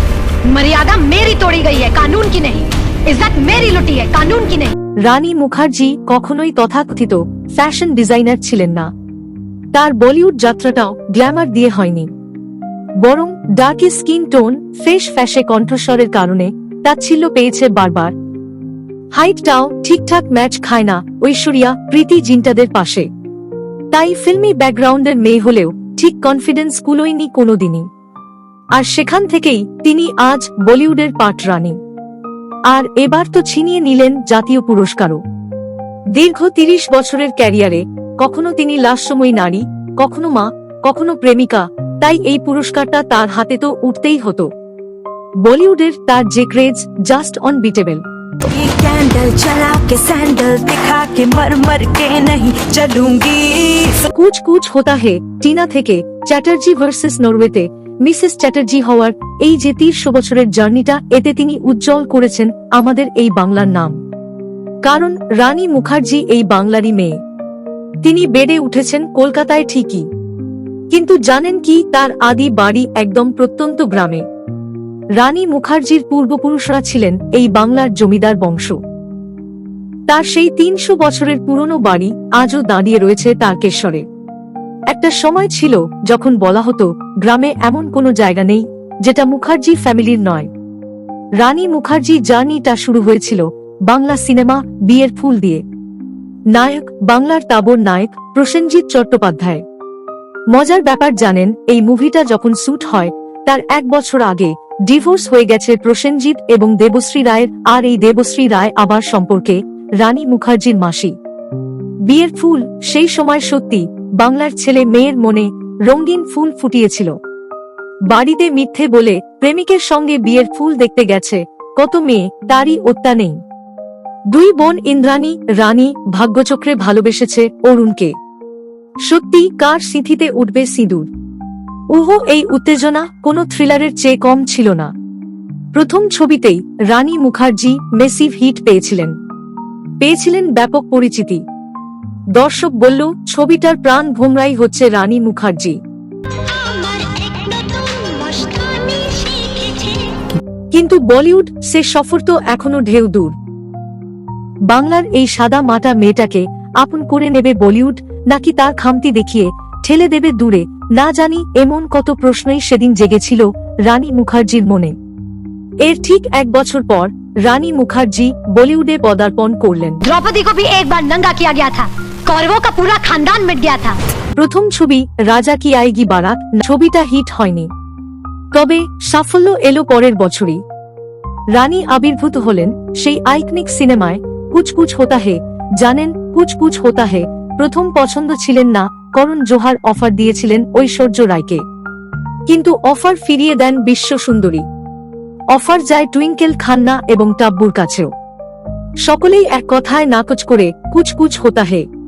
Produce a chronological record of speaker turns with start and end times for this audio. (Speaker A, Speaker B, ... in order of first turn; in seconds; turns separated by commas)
Speaker A: 0.5-4.7, Speaker B: 5.0-8.9, Speaker B: 9.7-12.1, Speaker B: 13.0-18.1, Speaker B: 19.1-23.1, Speaker B: 23.9-27.9, Speaker B: 28.7-31.8, Speaker B: 32.7-35.2, Speaker B: 36.1-44.5, Speaker B: 45.4-48.0, Speaker C: 48.5-54.0, Speaker B: 54.1-64.0, Speaker B: 64.8-67.2, Speaker B: 68.0-70.0, Speaker B: 70.9-74.2, Speaker B: 75.2-78.8, Speaker B: 80.1-84.0, Speaker B: 84.9-90.5, Speaker B: 91.4-95.6, Speaker B: 96.5-99.6, Speaker B: 100.5-111.1, Speaker B: 112.1-117.1, Speaker B: 118.1-123.4, Speaker B: 124.3-128.1, Speaker B: 129.1-131.1, Speaker B: 131.9-134.9, Speaker B: 135.7-139.1, Speaker B: 140.0-141.4, Speaker B: 142.4-145.8, Speaker C: 146.5-150.1, Speaker B: 150.7-153.3, Speaker B: 154.7-164.9, Speaker B: 165.8-170.0, Speaker A: 170.0-174.0, Speaker B: 174.3-177.7, Speaker B: 178.5-180.6, Speaker B: 181.5-191.6, Speaker B: 192.5-194.7, Speaker B: 195.5-198.1, Speaker B: 199.1-201.8